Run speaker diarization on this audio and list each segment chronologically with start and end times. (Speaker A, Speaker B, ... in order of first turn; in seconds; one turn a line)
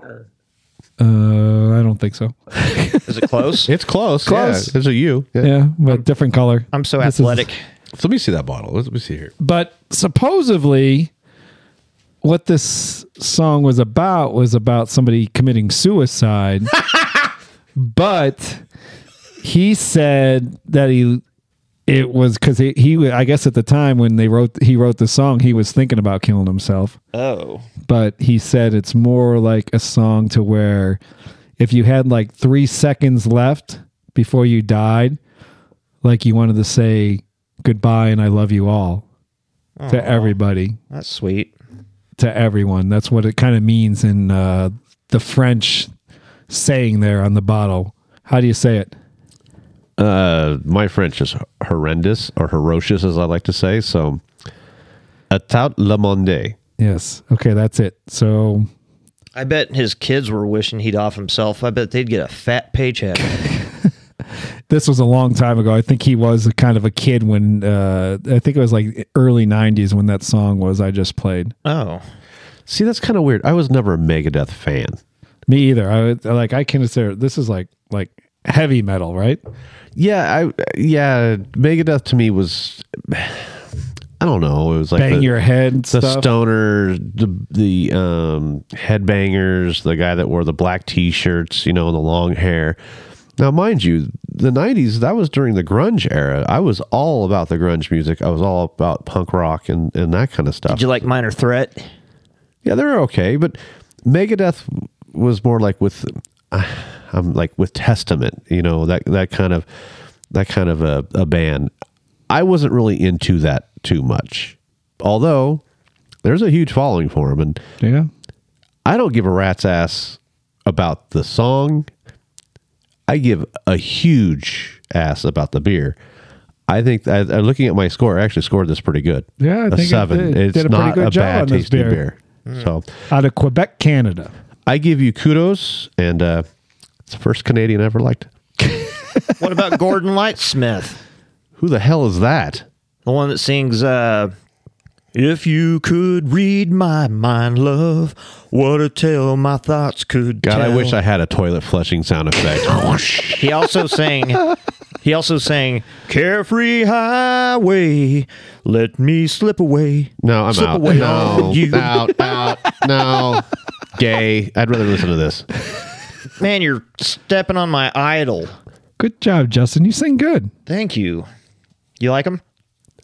Speaker A: 1.0-3.1
Speaker B: 3.1-3.7
Speaker C: 3.7-5.5
Speaker A: 4.2-4.8
Speaker A: 5.4-7.5
Speaker B: 6.7-7.6
Speaker C: 8.0-9.3
Speaker A: 9.4-11.1
Speaker A: 12.2-16.8
Speaker A: 17.8-18.6
Speaker A: 19.4-21.2
Speaker A: 21.9-27.0
Speaker B: 27.1-27.7
Speaker A: 27.9-31.0
Speaker A: 31.6-35.2
Speaker A: 36.0-39.0
Speaker B: 39.8-40.4
Speaker A: 39.9-40.8
Speaker B: 40.9-41.5
Speaker A: 42.2-45.9
Speaker A: 46.5-48.9
Speaker C: 50.0-54.2
Speaker C: 55.3-56.6
Speaker A: 56.8-58.7
Speaker B: 59.4-63.3
Speaker A: 64.7-71.5
Speaker B: 71.7-72.0
Speaker C: 72.7-75.0
Speaker A: 75.5-79.4
Speaker C: 80.0-83.7
Speaker C: 84.2-85.4
Speaker A: 85.0-86.3
Speaker C: 85.9-92.8
Speaker C: 93.4-101.0
Speaker B: 100.7-101.9
Speaker C: 102.6-109.7
Speaker C: 110.3-111.7
Speaker C: 112.3-115.6
Speaker C: 116.2-117.6
Speaker A: 117.8-118.1
Speaker C: 118.8-121.9
Speaker C: 123.1-126.0
Speaker C: 126.7-132.9
Speaker A: 129.4-132.0
Speaker B: 132.5-132.7
Speaker A: 133.1-134.3
Speaker C: 134.7-136.5
Speaker C: 137.1-138.3
Speaker A: 138.8-139.3
Speaker B: 139.4-141.0
Speaker C: 141.6-142.7
Speaker B: 143.1-144.3
Speaker B: 145.1-151.0
Speaker C: 150.4-153.5
Speaker B: 153.4-154.5
Speaker B: 155.0-162.3
Speaker C: 160.2-165.5
Speaker B: 166.4-168.6
Speaker A: 169.0-170.5
Speaker B: 170.7-171.3
Speaker B: 172.0-172.4